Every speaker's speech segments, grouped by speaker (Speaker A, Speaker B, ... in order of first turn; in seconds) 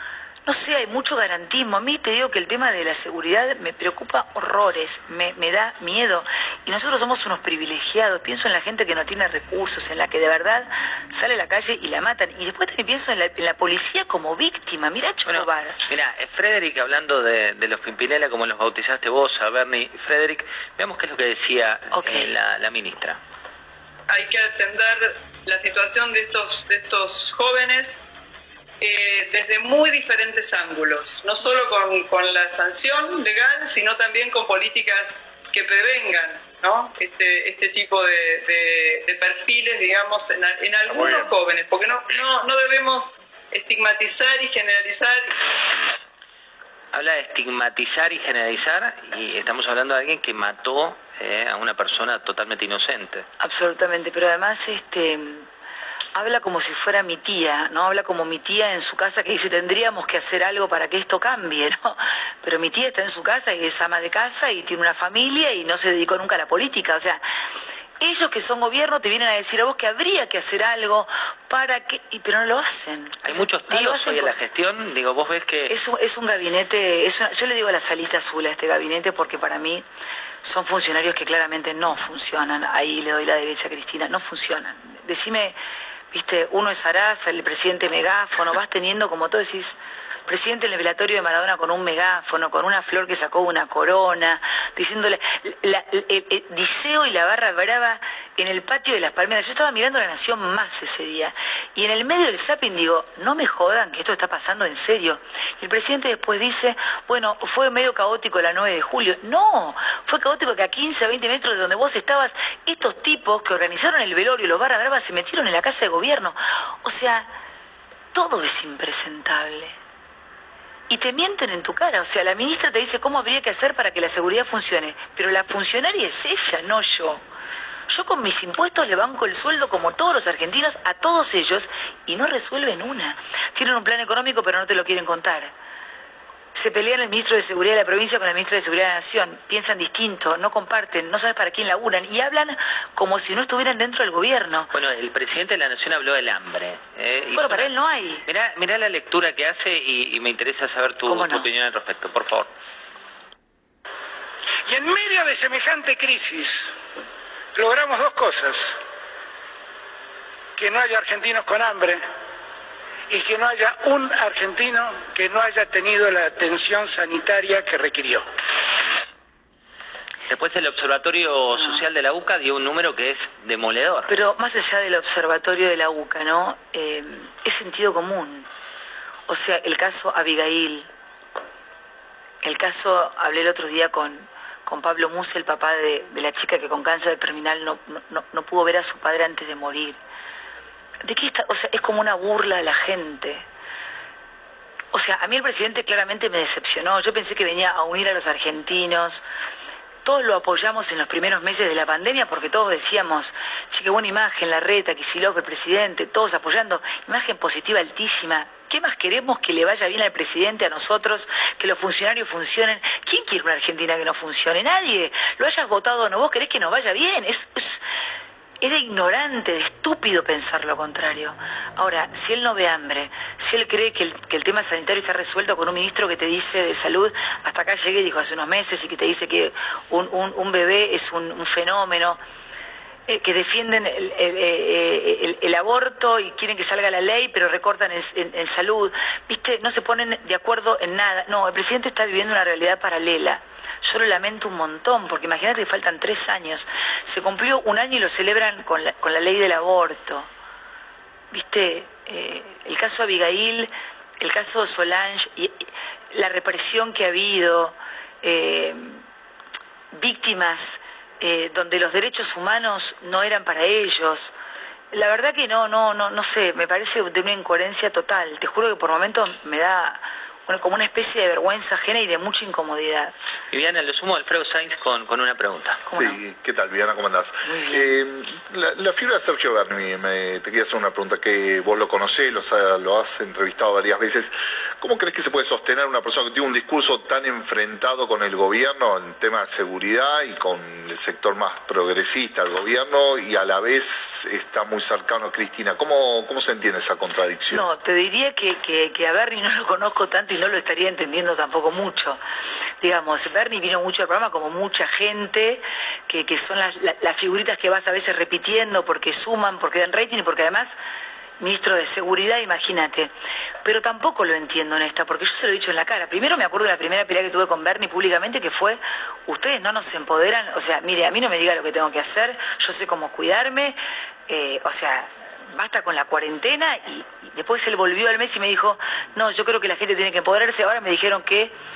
Speaker A: 0.5-15.8, 21.9-22.3, 53.4-55.5, 56.1-67.2, 68.0-74.3, 75.7-79.8, 80.4-85.6, 86.1-117.3, 118.1-119.8, 120.9-127.2, 127.9-135.5, 136.6-144.7, 147.3-148.2, 151.1-151.5, 174.1-178.5, 179.3-180.9, 182.4-190.0, 191.0-193.4, 194.9-199.2, 200.0-217.8, 218.6-232.2, 233.1-250.3, 251.3-259.0, 259.9-264.3, 264.9-273.1, 275.9-276.2, 277.4-277.9, 297.5-302.2, 302.8-310.8, 311.4-313.1, 313.6-331.6
Speaker B: 15.3-23.2, 46.9-53.2, 73.2-75.8, 144.7-147.7, 148.3-152.5, 170.3-174.1, 273.5-275.8
Speaker C: 24.1-28.0, 28.8-45.4
Speaker D: 154.7-156.7, 157.6-158.8, 160.6-162.0, 163.1-168.3
Speaker E: 275.9-297.7